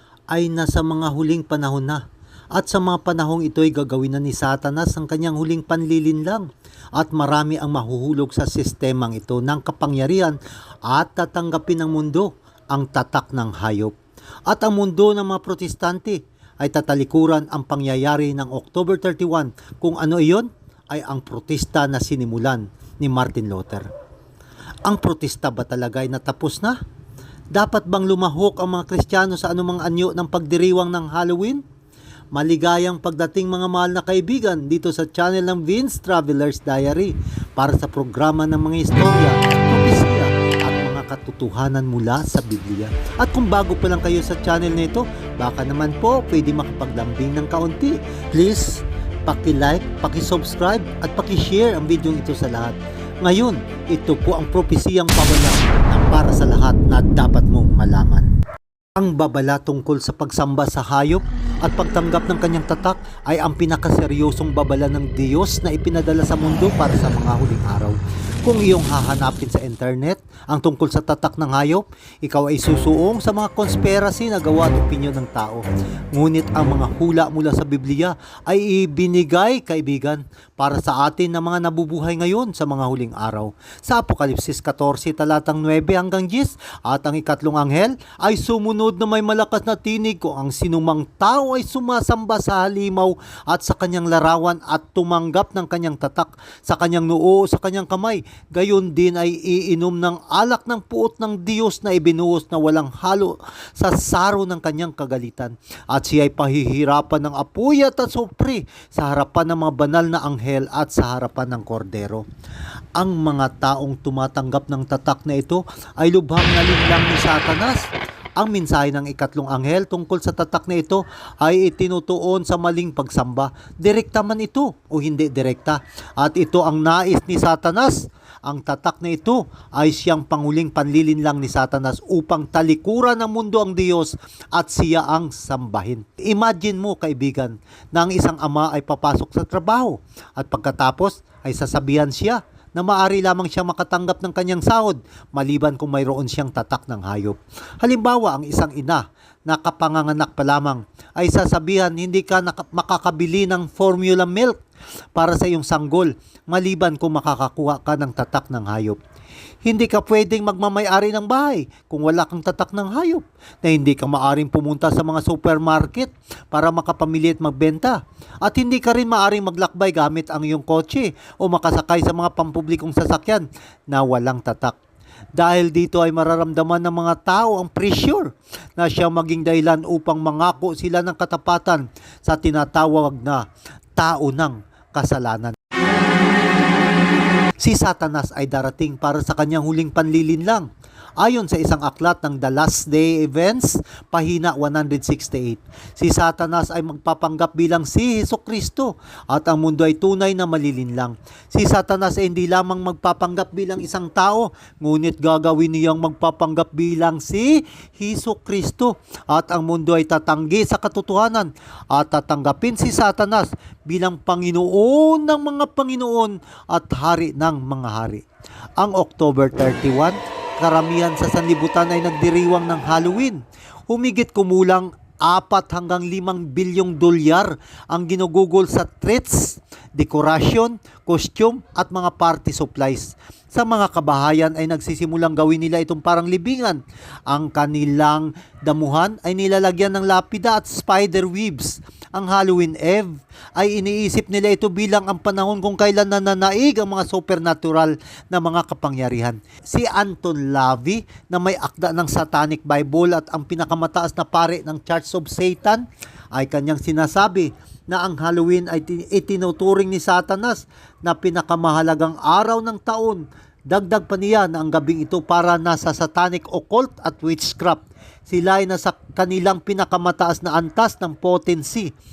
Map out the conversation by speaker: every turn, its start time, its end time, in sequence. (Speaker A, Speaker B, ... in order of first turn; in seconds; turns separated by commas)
Speaker A: 0.3-2.0, Speaker A: 2.5-13.9, Speaker A: 14.5-23.9, Speaker A: 24.9-26.8, Speaker A: 27.5-31.6, Speaker A: 32.3-58.3, Speaker A: 59.0-112.2, Speaker A: 113.0-154.6, Speaker A: 155.2-159.0, Speaker A: 159.7-174.8, Speaker A: 175.4-183.4, Speaker A: 184.0-185.6, Speaker A: 187.6-190.7, Speaker A: 191.2-218.2, Speaker A: 218.8-271.9